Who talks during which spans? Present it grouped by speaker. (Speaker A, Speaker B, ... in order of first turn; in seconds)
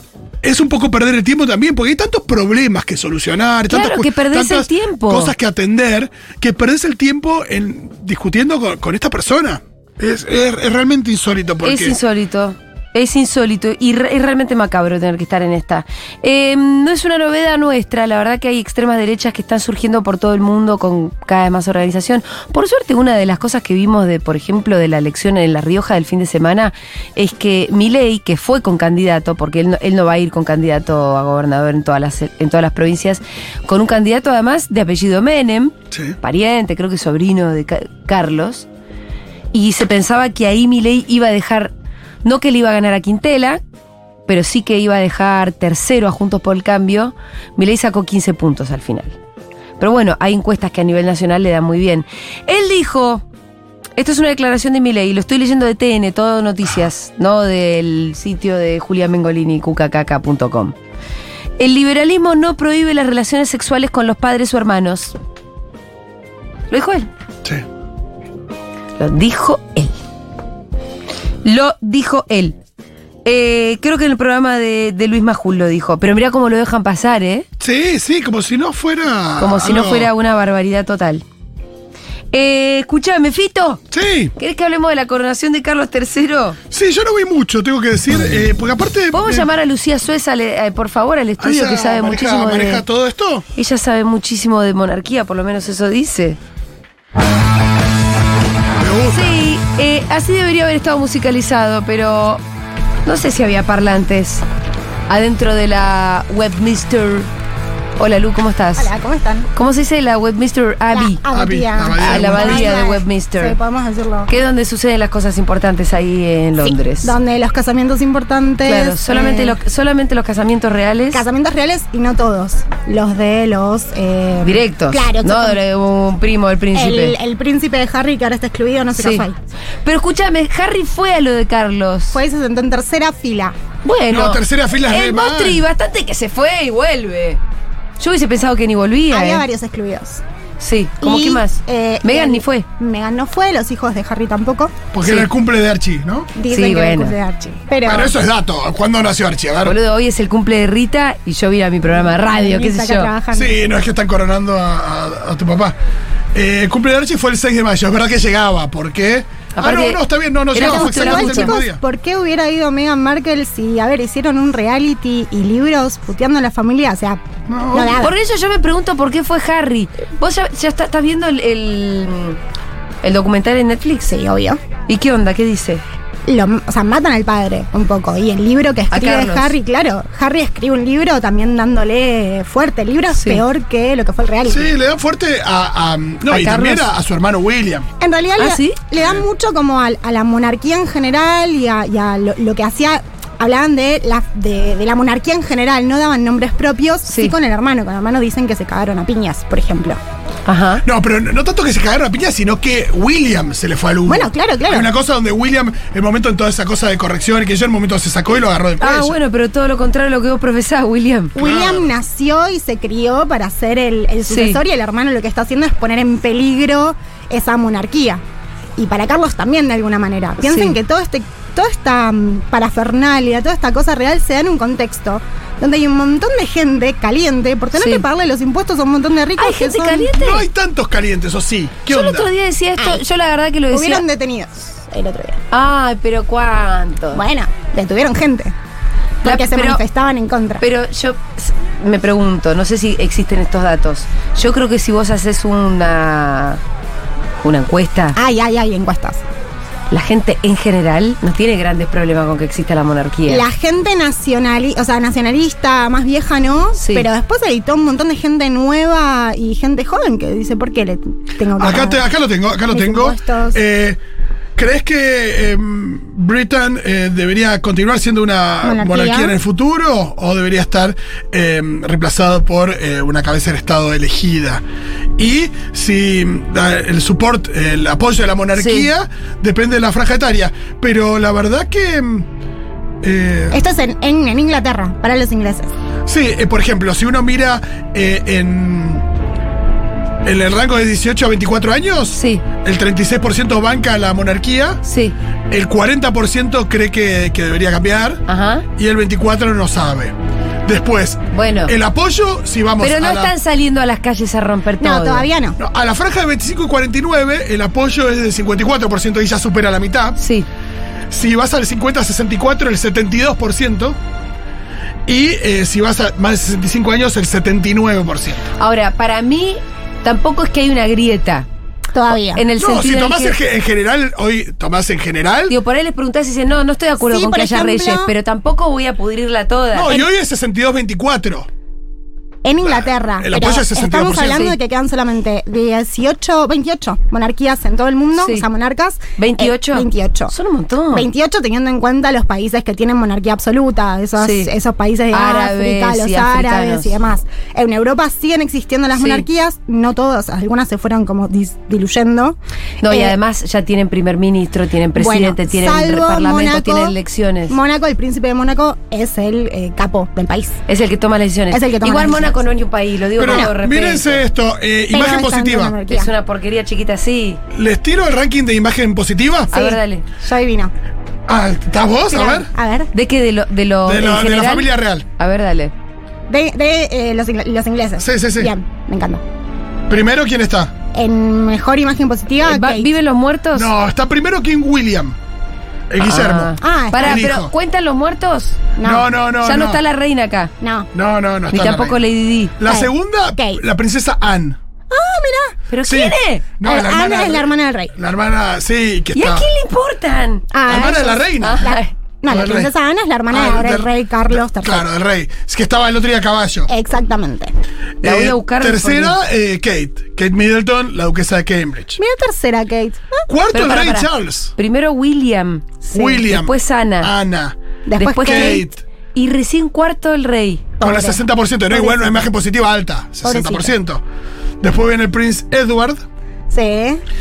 Speaker A: 0.4-12.0, 35.9-36.2, 77.6-80.1, 83.9-84.3, 86.7-89.5, 91.4-93.5, 98.8-99.4, 111.3-112.8, 134.1-135.7, 144.9-146.3, 147.8-149.8, 153.3-155.8, 156.3-161.8, 167.5-168.1, 184.5-187.9, 189.0-189.2, 200.8-209.2, 211.4-211.9, 230.2-232.3, 261.6-264.0, 264.6-274.6, 275.2-282.3, 283.0-283.6, 286.1-289.1, 290.2-294.8, 295.5-298.2, 298.8-303.3, 305.6-310.2, 311.1-314.0, 315.1-318.5, 322.6-325.5, 329.7-331.5, 332.6-334.5, 363.2-365.8, 367.5-369.5, 371.3-372.5, 373.8-375.1, 378.0-378.5, 379.9-380.8, 383.5-385.2, 385.9-387.5, 388.8-389.8, 390.9-392.0, 392.6-394.6, 395.8-399.5, 400.7-401.7, 402.3-402.7, 403.3-406.7, 408.0-412.0, 413.3-414.5, 415.9-417.6, 418.2-418.8, 420.8-424.0, 424.6-426.0
Speaker B: 3.7-5.3, 11.6-38.7, 39.5-41.7, 42.2-43.6, 44.3-49.2, 49.8-53.2, 54.0-60.8, 61.6-65.2, 66.7-67.1, 69.0-69.9, 71.4-72.6, 73.2-77.5, 79.4-81.2, 82.3-83.8, 84.4-86.6, 89.1-92.8, 93.5-96.4, 99.1-102.4, 103.0-104.4, 105.1-107.3, 108.0-108.9, 109.5-111.2, 112.0-113.5, 114.3-117.1, 118.6-121.2, 124.4-127.2, 129.0-129.3, 129.8-132.2, 133.8-137.4, 138.0-139.4, 140.6-142.7, 145.0-145.3, 146.5-147.2, 149.6-153.1, 159.5-161.6, 167.9-172.4, 173.0-174.1, 174.9-175.8, 178.9-179.5, 183.2-183.4, 186.3-186.9, 188.4-188.8, 197.1-197.3, 200.5-200.8, 208.8-211.3, 214.3-214.6, 220.4-220.8, 227.8-228.0, 229.4-230.4, 231.9-234.0, 235.5-237.2, 239.2-239.8, 240.6-246.6, 247.4-248.2, 249.9-253.4, 256.8-257.1, 278.6-278.9, 292.1-292.4, 294.8-295.1, 298.3-298.7, 301.3-301.7, 302.8-305.3, 310.2-310.5, 318.6-321.5, 322.3-323.3, 325.5-329.9, 338.2-338.4, 339.2-341.1, 344.2-344.5, 345.1-347.0, 349.0-349.2, 352.8-357.6, 360.7-364.2, 365.9-367.4, 369.5-370.0, 372.9-375.7, 382.4-383.7, 386.0-388.7, 389.4-390.5, 391.5-392.5, 395.7-396.4, 399.1-400.5, 401.4-401.9, 408.0-409.2, 413.5-417.1, 418.0-420.7
Speaker C: 108.8-109.5, 110.9-114.3, 116.6-119.6, 121.1-125.6, 126.7-129.4, 132.1-133.6, 139.1-140.2, 141.0-144.8, 146.3-148.1, 152.0-153.5, 160.5-168.1, 174.1-174.6, 176.3-184.7, 188.0-200.0, 204.1-204.9, 211.3-218.2, 218.8-230.1, 233.7-235.4, 237.2-238.5, 239.2-240.6, 248.2-249.2, 253.3-262.0, 262.7-263.6, 268.6-269.3, 283.5-285.7, 304.8-305.6, 321.9-322.4, 327.0-328.1, 332.4-340.3, 340.9-352.4, 352.9-353.1, 355.0-356.9, 357.5-360.6, 361.5-362.4, 364.9-366.1, 369.5-370.7, 372.1-372.9, 376.3-379.2, 380.9-382.9, 386.6-387.3, 388.8-389.1, 390.6-390.9, 392.6-393.6, 394.9-395.6, 396.6-397.9, 400.5-404.9, 406.7-407.5, 412.0-413.3, 415.9-416.2, 417.9-418.6, 420.8-422.3, 423.2-423.7, 426.5-427.0